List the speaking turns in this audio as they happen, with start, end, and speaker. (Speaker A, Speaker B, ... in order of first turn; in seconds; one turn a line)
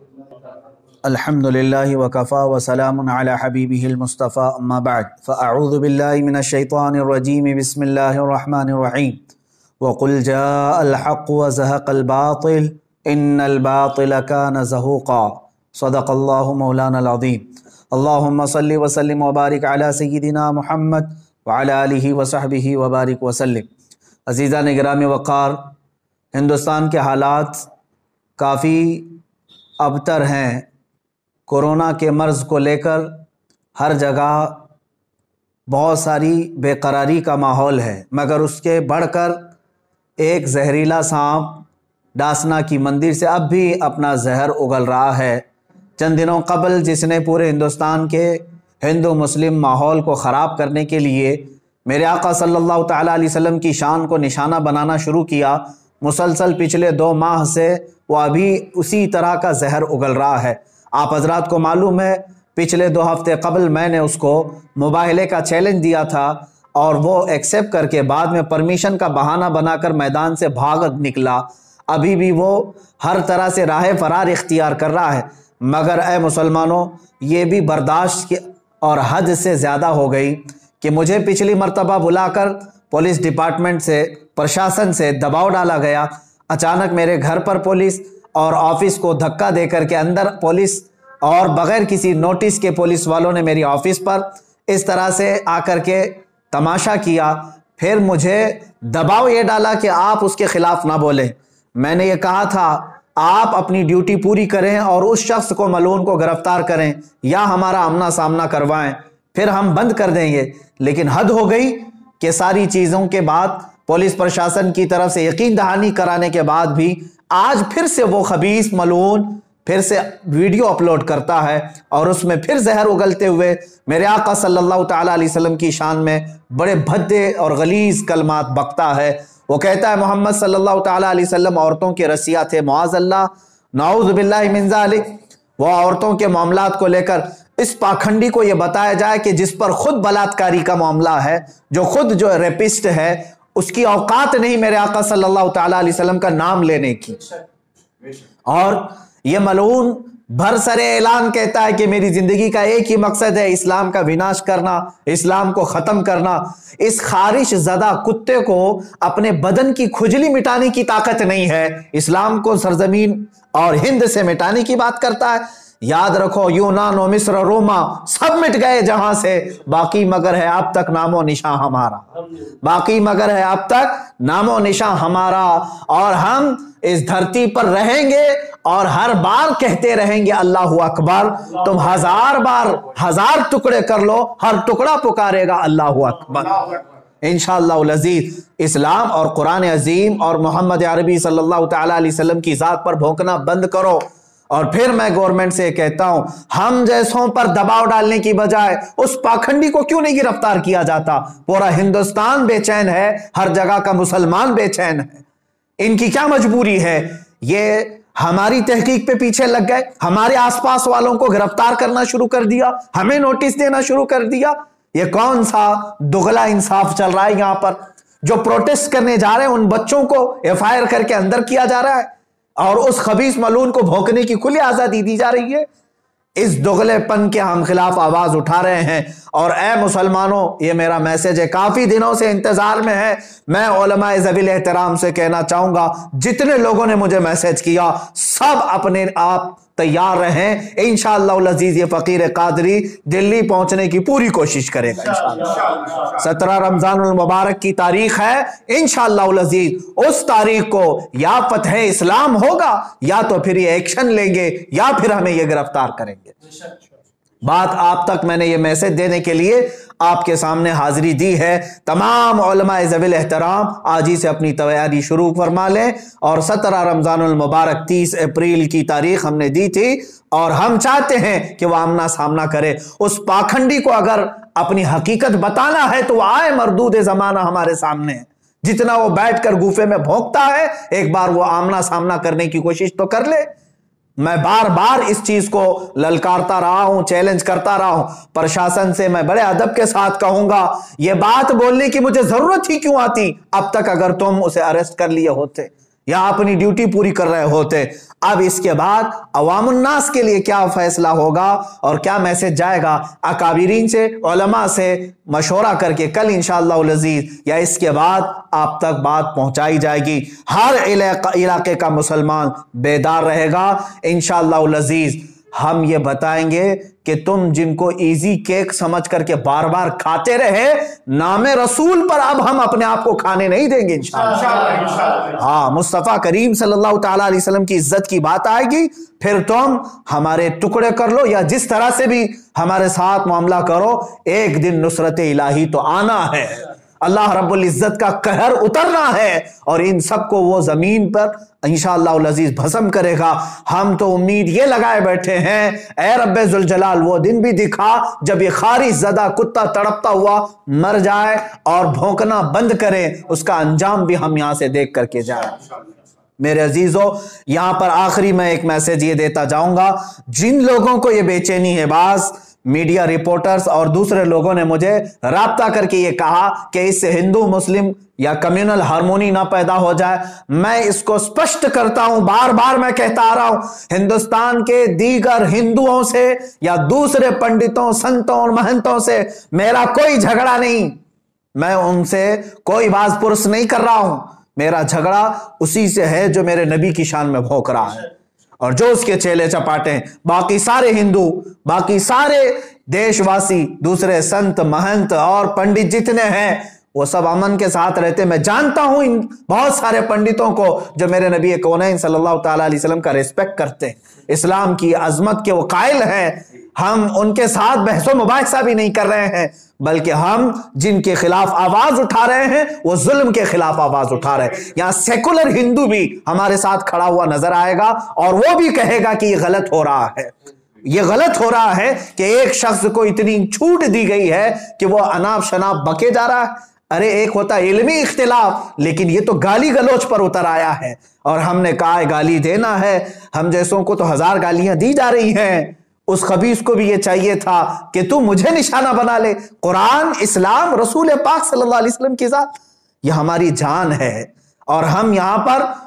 Speaker A: 1.1-9.2
Speaker A: 9.8-23.7
Speaker A: 24.3-25.7
Speaker A: 26.3-27.7
Speaker A: 28.4-29.2
Speaker A: 29.8-30.7
Speaker A: 31.5-33.2
Speaker A: 33.8-34.7
Speaker A: 35.7-39.5
Speaker A: 40.2-45.5
Speaker A: 46.0-147.3
Speaker A: 148.5-172.1
Speaker A: 172.6-205.2
Speaker A: 205.8-225.7
Speaker A: 226.4-256.4
Speaker A: 257.4-283.5
Speaker A: 284.2-355.6
Speaker A: 356.4-381.0
Speaker A: 381.6-420.3
Speaker A: 420.9-442.5
Speaker A: 443.0-445.7